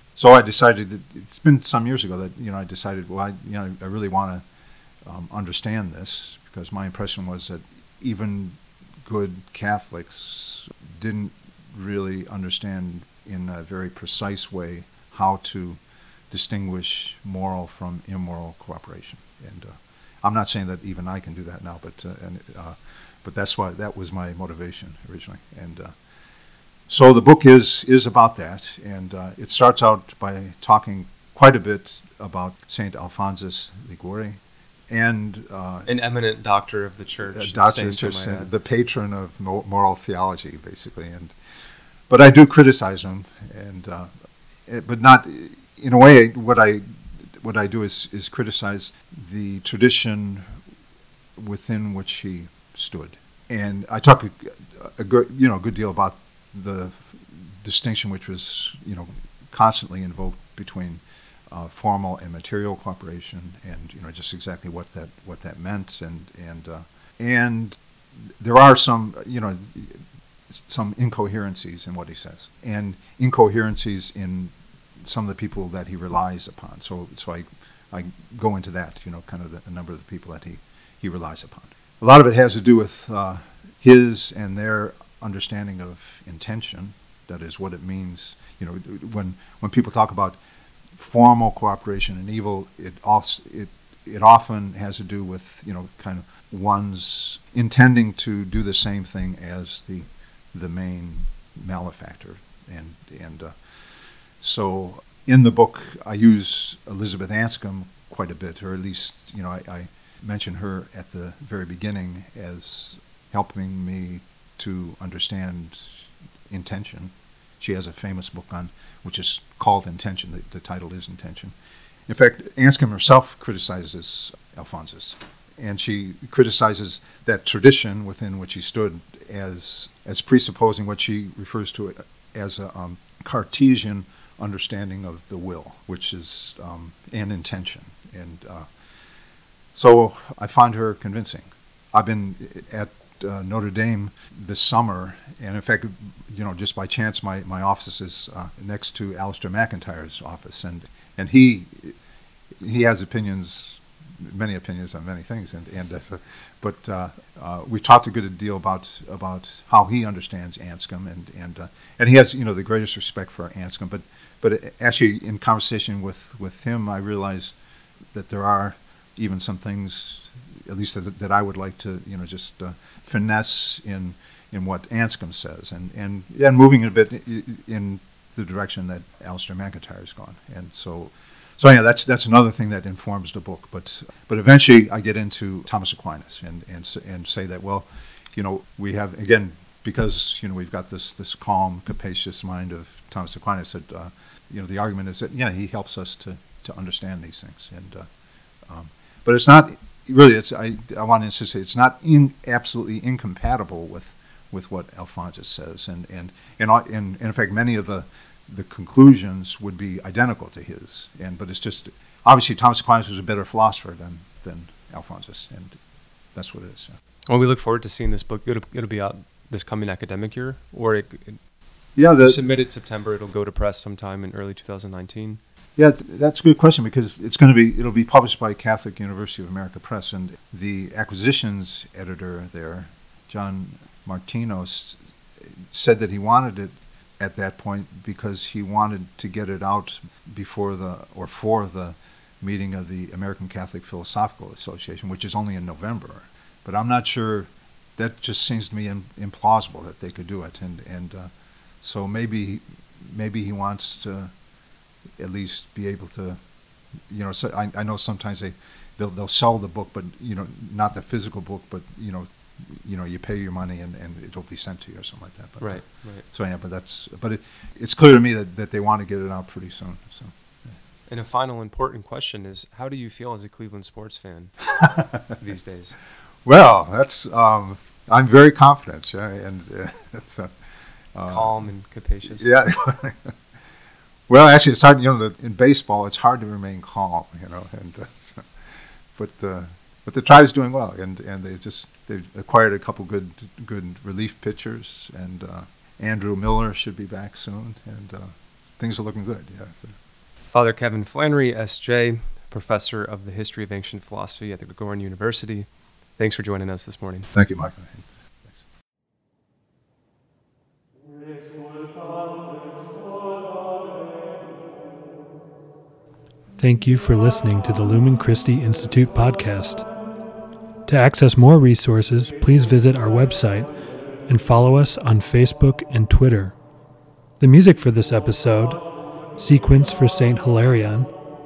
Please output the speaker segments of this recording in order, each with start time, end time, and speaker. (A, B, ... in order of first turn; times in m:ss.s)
0:00.2-0:04.4 A
0:05.0-0:26.0 A
0:26.9-0:35.9 A
0:35.9-0:38.5 B
0:37.3-0:41.4 A
0:42.1-0:44.1 A
0:44.7-0:50.5 A
0:51.4-1:07.8 A
1:08.3-1:10.0 A
1:10.6-1:30.4 A
1:30.9-1:43.6 A
1:44.4-2:01.5 A
2:02.1-2:18.7 A
2:19.8-2:32.0 A
2:32.6-2:47.6 A
2:48.1-3:18.1 A
3:18.7-3:35.8 A
3:36.4-3:37.0 A
3:37.3-3:41.4 B
3:42.0-3:42.4 A
3:42.2-3:45.4 B
3:45.8-4:14.3 A
4:15.2-4:16.4 A
4:17.1-4:30.3 A
4:25.6-4:26.2 B
4:31.1-4:34.5 B
4:34.8-4:35.3 A
4:35.3-4:36.0 B
4:36.4-4:40.5 A
4:41.1-4:41.5 A
4:41.3-4:42.5 B
4:42.3-4:43.3 A
4:44.3-4:48.5 A
4:49.2-5:00.0 A
5:00.5-5:07.3 B
5:07.3-5:08.6 A
5:16.6-5:19.9 C
5:20.9-5:23.7 C
5:24.3-5:26.6 C
5:27.4-5:28.8 C
5:29.4-5:31.1 C